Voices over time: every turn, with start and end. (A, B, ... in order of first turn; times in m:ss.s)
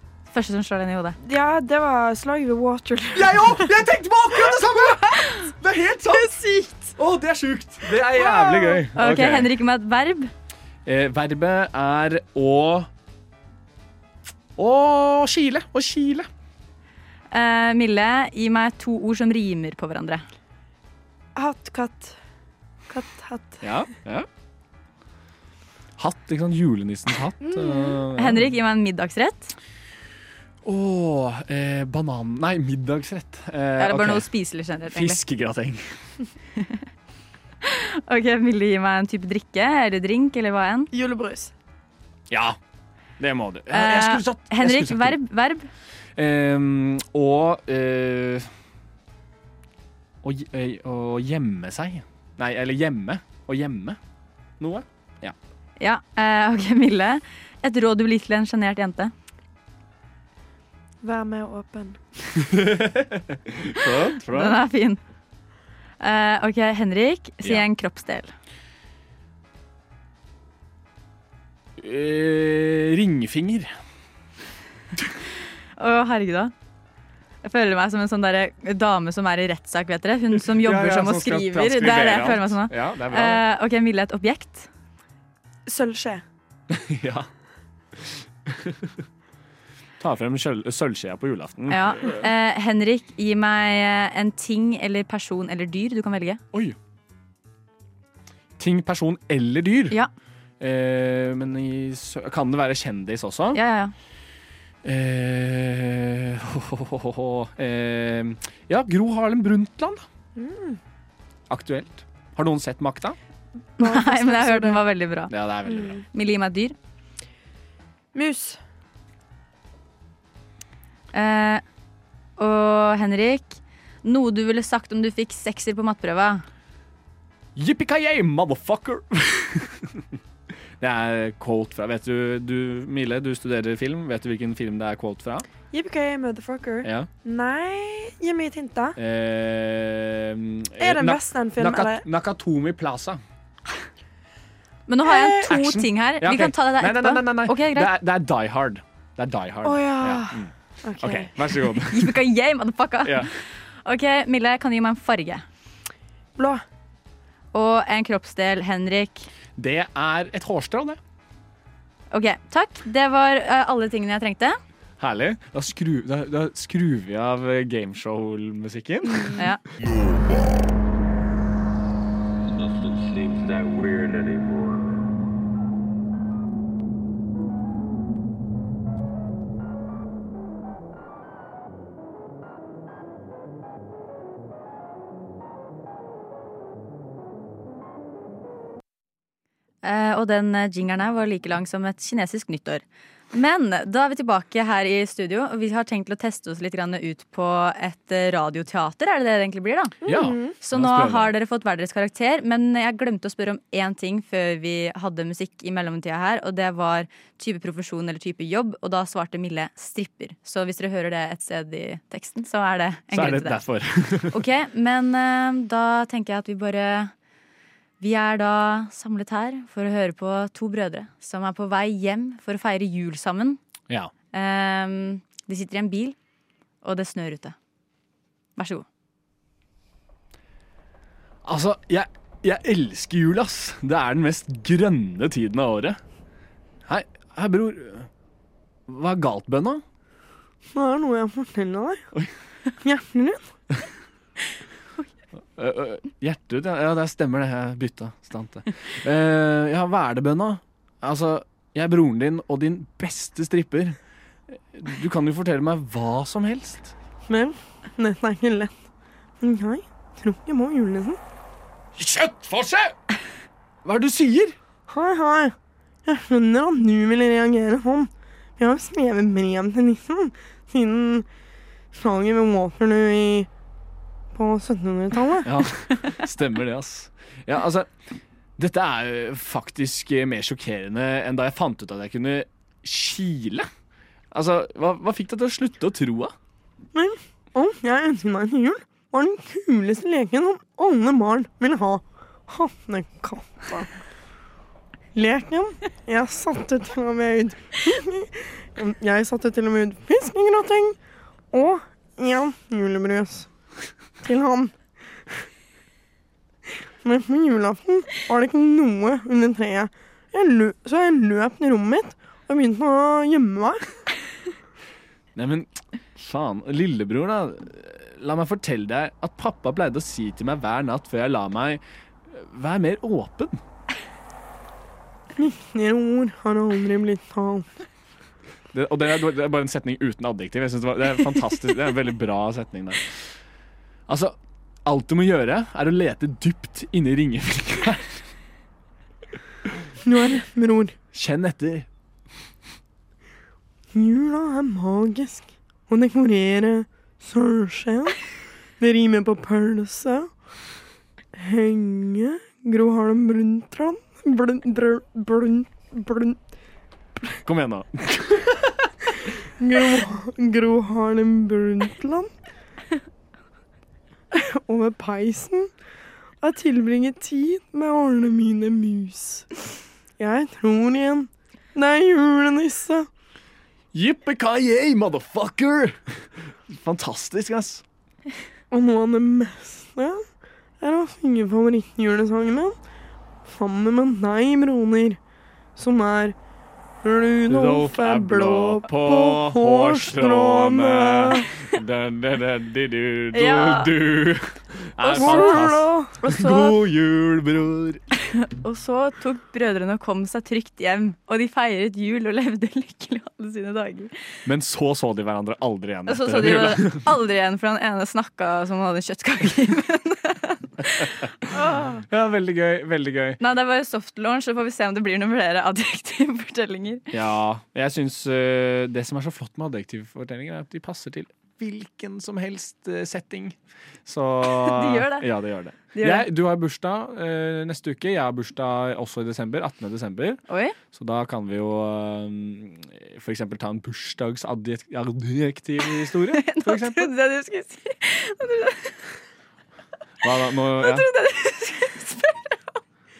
0:00.3-0:01.2 A
0:01.2-0:03.7 B
0:03.1-0:06.4 C
0:05.1-0:05.5 B
0:06.0-0:06.9 B
0:07.0-0:09.5 C
0:07.9-0:08.8 B
0:09.0-0:10.3 A
0:10.8-0:12.9 C
0:14.6-0:16.3 C
0:17.3-0:20.2 A
0:21.4-0:22.2 B
0:22.9-0:23.6 B
0:23.6-0:24.3 C
0:26.0-0:28.5 C
0:27.4-0:28.0 B
0:28.2-0:29.5 A
0:30.6-0:34.3 C
0:33.8-0:35.2 A
0:34.9-0:35.8 C
0:37.6-0:40.9 A
0:40.9-0:41.5 B
0:42.3-0:42.6 C
0:43.2-0:45.2 C
0:43.7-0:45.7 A
0:46.2-0:48.5 C
0:50.2-0:54.0 C
0:54.6-0:55.3 C
0:55.8-0:59.1 A
1:01.0-1:02.0 B
1:02.5-1:04.6 C
1:04.2-1:05.0 A
1:06.0-1:08.3 A
1:11.8-1:13.7 C
1:15.8-1:16.5 A
1:17.4-1:24.7 A
1:20.3-1:23.4 C
1:25.7-1:26.2 B
1:26.7-1:27.3 C
1:28.1-1:28.9 C
1:30.0-1:32.2 C
1:31.7-1:36.4 A
1:38.6-1:40.0 C
1:40.6-1:43.6 C
1:43.5-1:43.9 A
1:44.8-1:50.0 C
1:50.4-1:50.8 B
1:51.5-1:53.2 C
1:53.8-1:54.8 B
1:53.8-1:55.3 A
1:55.3-1:56.0 C
1:55.7-1:56.0 B
1:56.1-1:56.7 A
1:58.1-1:58.6 B
2:01.1-2:01.6 A
2:02.4-2:06.4 A
2:07.6-2:10.0 C
2:10.8-2:15.4 C
2:15.7-2:19.0 B
2:16.8-2:17.1 C
2:19.0-2:23.2 C
2:20.8-2:22.0 B
2:24.9-2:27.9 A
2:25.0-2:25.6 B
2:25.4-2:32.2 C
2:29.6-2:31.3 B
2:31.9-2:35.4 A
2:36.4-2:36.6 B
2:37.5-2:39.3 A
2:39.6-2:41.0 C
2:42.1-2:44.6 A
2:45.0-2:49.4 C
2:49.2-2:49.4 B
2:52.5-2:55.1 D
3:09.8-3:20.0 A
3:20.0-3:20.5 B
3:20.0-3:21.3 C
3:20.6-3:33.6 A
3:33.1-3:34.4 C
3:34.3-3:37.1 A
3:38.0-3:43.6 A
3:44.3-3:46.2 A
3:46.8-3:47.5 A
3:48.6-3:48.8 A
3:51.4-3:56.0 C
3:56.9-3:58.1 C
3:58.9-3:59.8 C
4:00.7-4:02.0 B
4:02.8-4:03.4 B
4:05.6-4:14.0 C
4:14.7-4:16.9 C
4:17.3-4:18.7 B
4:19.4-4:21.2 B
4:22.0-4:22.9 C
4:23.8-4:24.5 C
4:24.9-4:25.5 B
4:26.0-4:31.2 B
4:31.9-4:33.5 B
4:34.3-4:35.5 B
4:35.4-4:37.9 C
4:38.6-4:43.7 C
4:44.3-4:46.3 C
4:46.9-4:53.9 B
4:55.1-5:01.0 B
5:01.5-5:03.5 B
5:04.2-5:04.7 B
5:07.0-5:13.8 B
5:15.3-5:23.6 C
5:25.4-5:27.7 B
5:28.7-5:33.2 C
5:34.1-5:38.2 C
5:40.0-5:40.9 B
5:41.1-5:41.9 C
5:43.9-5:50.3 B
5:51.4-5:56.4 B
5:57.4-5:58.9 C
5:59.6-6:02.3 B
6:04.3-6:05.7 B
6:06.4-6:09.5 B
6:10.2-6:13.1 B
6:13.9-6:16.1 C
6:16.7-6:17.8 C
6:18.7-6:20.2 B
6:20.8-6:22.7 B
6:23.5-6:25.2 B
6:25.8-6:26.4 B
6:27.0-6:31.5 B
6:27.5-6:38.0 C
6:33.3-6:33.9 A
6:35.0-6:35.6 A
6:35.1-6:36.8 B
6:38.3-6:44.1 A
6:44.4-6:47.0 C
6:46.1-6:52.0 A
6:52.1-6:53.4 C
6:53.4-6:57.0 A
6:57.1-7:10.4 C
7:04.5-7:05.3 A
7:05.9-7:06.2 A
7:10.5-7:10.8 A
7:10.9-7:17.1 C
7:16.4-7:19.0 A
7:20.2-7:21.1 C
7:20.8-7:22.8 A